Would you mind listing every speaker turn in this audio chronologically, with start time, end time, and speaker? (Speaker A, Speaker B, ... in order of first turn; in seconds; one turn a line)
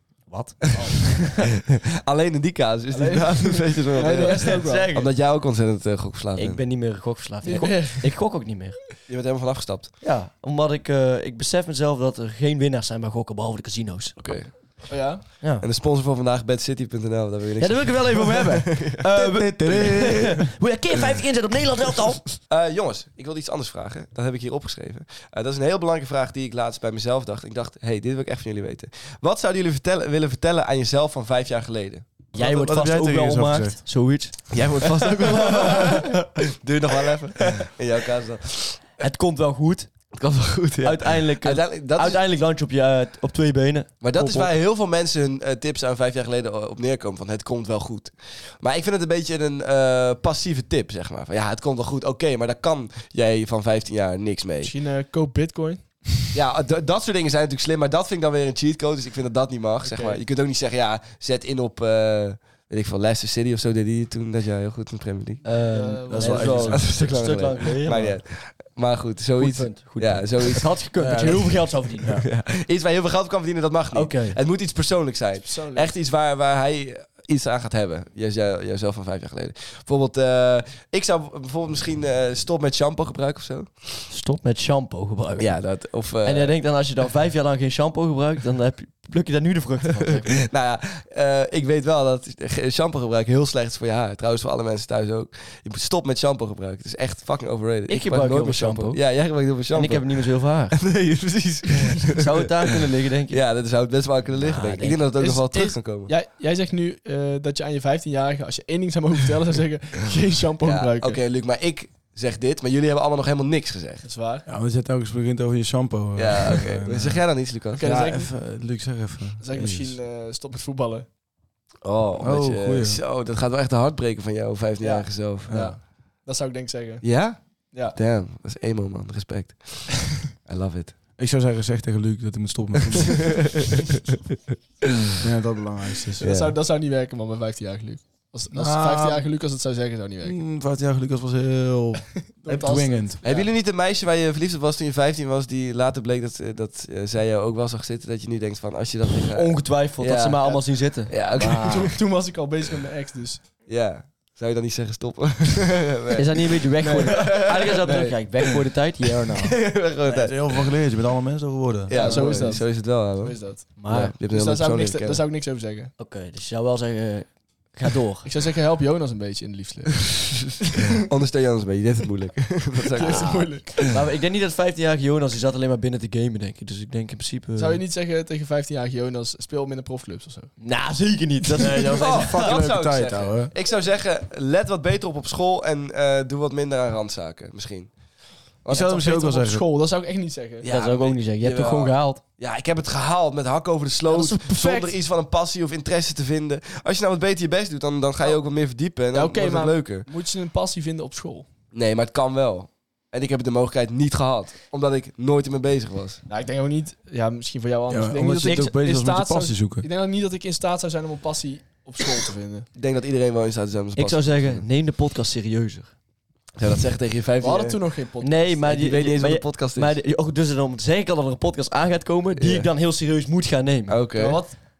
Speaker A: 0.3-1.4
Speaker B: 0.6-6.6
Speaker C: 0.7-1.1
Speaker C: 2.9-4.9
Speaker A: 4.2-5.1
Speaker A: 6.3-8.9
Speaker C: 7.4-8.2
Speaker B: 9.1-9.9
Speaker A: 10.0-14.5
Speaker B: 14.2-19.0
Speaker C: 14.9-15.3
Speaker A: 17.6-22.3
Speaker D: 19.1-20.5
Speaker B: 22.4-32.0
Speaker D: 32.3-33.8
Speaker A: 32.3-36.3
Speaker B: 34.5-39.0
Speaker A: 39.0-39.9
Speaker B: 40.1-42.2
Speaker A: 40.8-43.9
Speaker B: 44.0-54.7
Speaker D: 44.1-44.5
Speaker C: 54.6-56.2
Speaker B: 56.3-65.4
Speaker C: 59.8-60.2
Speaker A: 65.4-68.2
Speaker C: 65.7-66.7
Speaker D: 66.1-66.8
Speaker B: 66.3-70.8
Speaker A: 69.4-72.1
Speaker D: 71.0-72.2
Speaker B: 72.1-84.1
Speaker A: 73.9-74.4
Speaker C: 75.4-75.9
Speaker A: 84.1-85.6
Speaker B: 85.4-86.6
Speaker A: 86.2-90.5
Speaker B: 90.1-106.1
Speaker A: 97.9-99.0
Speaker A: 99.7-100.8
Speaker A: 102.1-103.4
Speaker A: 104.3-105.0
Speaker C: 105.2-111.2
Speaker B: 110.6-114.0
Speaker C: 114.0-114.4
Speaker D: 114.5-117.2
Speaker B: 116.2-117.8
Speaker C: 117.8-118.3
Speaker D: 117.8-120.0
Speaker C: 119.4-121.1
Speaker B: 121.8-125.5
Speaker D: 122.2-123.0
Speaker C: 124.8-127.2
Speaker D: 125.5-125.8
Speaker B: 127.0-127.4
Speaker B: 127.9-130.9
Speaker D: 131.2-133.7
Speaker B: 132.9-134.1
Speaker D: 135.2-136.2
Speaker C: 136.2-140.4
Speaker B: 136.2-136.5
Speaker D: 138.5-139.3
Speaker D: 140.2-143.2
Speaker C: 142.4-143.5
Speaker B: 143.2-151.9
Speaker A: 149.3-151.9
Speaker C: 151.3-153.5
Speaker B: 153.6-158.5
Speaker A: 156.2-159.6
Speaker C: 156.8-157.4
Speaker B: 159.3-160.7
Speaker D: 160.1-162.5
Speaker B: 161.9-165.2
Speaker C: 161.9-165.9
Speaker A: 163.8-164.1
Speaker A: 166.0-168.3
Speaker C: 168.2-171.0
Speaker B: 171.1-173.3
Speaker C: 172.8-173.9
Speaker A: 173.0-177.8
Speaker C: 177.6-180.5
Speaker A: 180.6-182.4
Speaker D: 181.6-183.5
Speaker B: 181.9-187.9
Speaker B: 188.6-189.0
Speaker D: 188.7-189.6
Speaker C: 188.7-190.7
Speaker B: 190.6-200.1
Speaker A: 190.6-192.2
Speaker C: 194.1-194.9
Speaker C: 199.1-201.5
Speaker B: 201.7-206.2
Speaker C: 206.3-212.7
Speaker D: 207.9-209.8
Speaker B: 212.7-214.6
Speaker A: 213.9-215.9
Speaker B: 216.6-217.8
Speaker C: 217.4-218.6
Speaker A: 218.2-224.0
Speaker B: 218.7-220.0
Speaker B: 222.4-222.7
Speaker B: 223.9-224.4
Speaker C: 224.1-224.6